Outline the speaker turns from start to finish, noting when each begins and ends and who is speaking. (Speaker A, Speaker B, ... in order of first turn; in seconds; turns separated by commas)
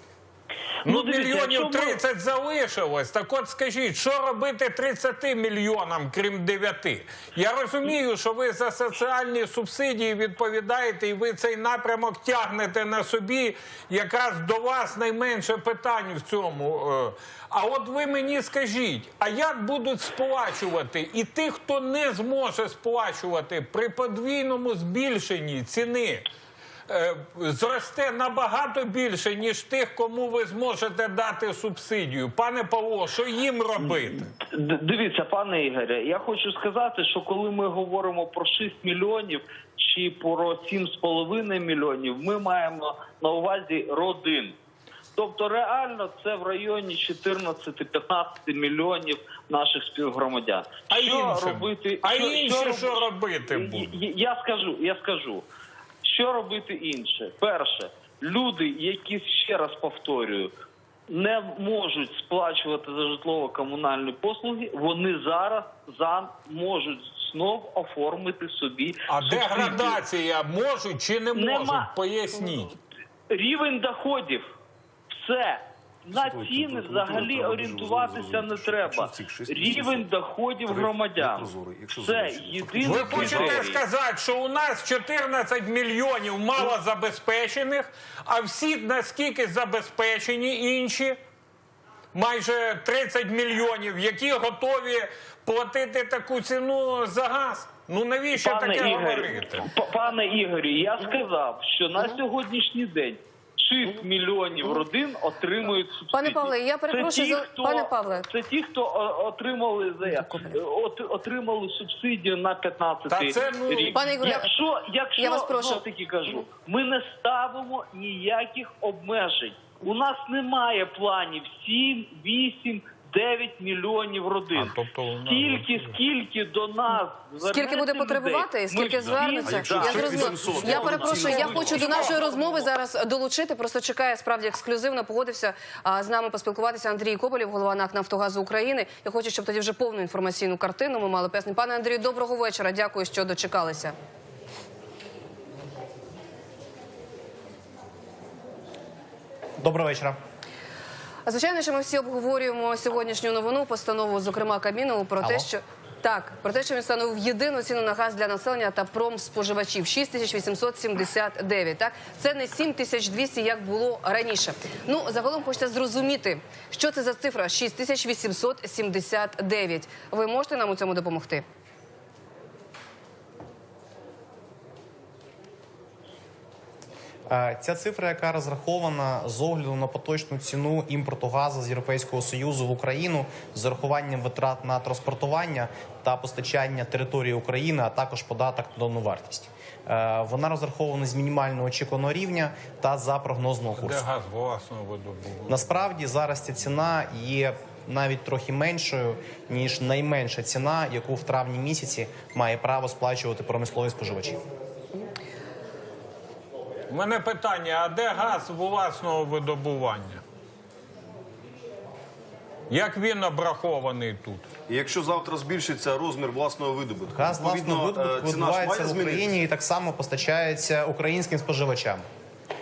Speaker A: 0.8-2.0, Speaker B: 0.8-26.2, Speaker B: 26.9-34.3, Speaker A: 34.4-44.5, Speaker A: 45.1-55.4, Speaker B: 50.9-54.0, Speaker A: 56.0-60.5, Speaker A: 61.1-70.0, Speaker B: 69.1-72.8, Speaker A: 71.3-71.9, Speaker A: 73.3-74.5, Speaker A: 75.1-83.8, Speaker C: 76.1-80.1, Speaker C: 80.6-83.8, Speaker B: 82.8-91.2, Speaker B: 92.1-99.7, Speaker A: 98.3-132.7, Speaker D: 106.1-108.3, Speaker D: 110.0-110.6, Speaker B: 113.1-114.2, Speaker D: 113.9-114.5, Speaker D: 115.2-115.8, Speaker B: 124.5-126.0, Speaker D: 127.4-143.9, Speaker C: 128.9-132.1, Speaker B: 131.6-132.1, Speaker E: 149.6-150.2, Speaker D: 151.2-171.4, Speaker E: 155.2-155.5, Speaker E: 177.3-194.0, Speaker B: 193.8-195.8, Speaker E: 195.5-204.4, Speaker B: 206.9-210.2, Speaker B: 212.7-214.5, Speaker C: 214.7-219.4, Speaker E: 217.1-222.1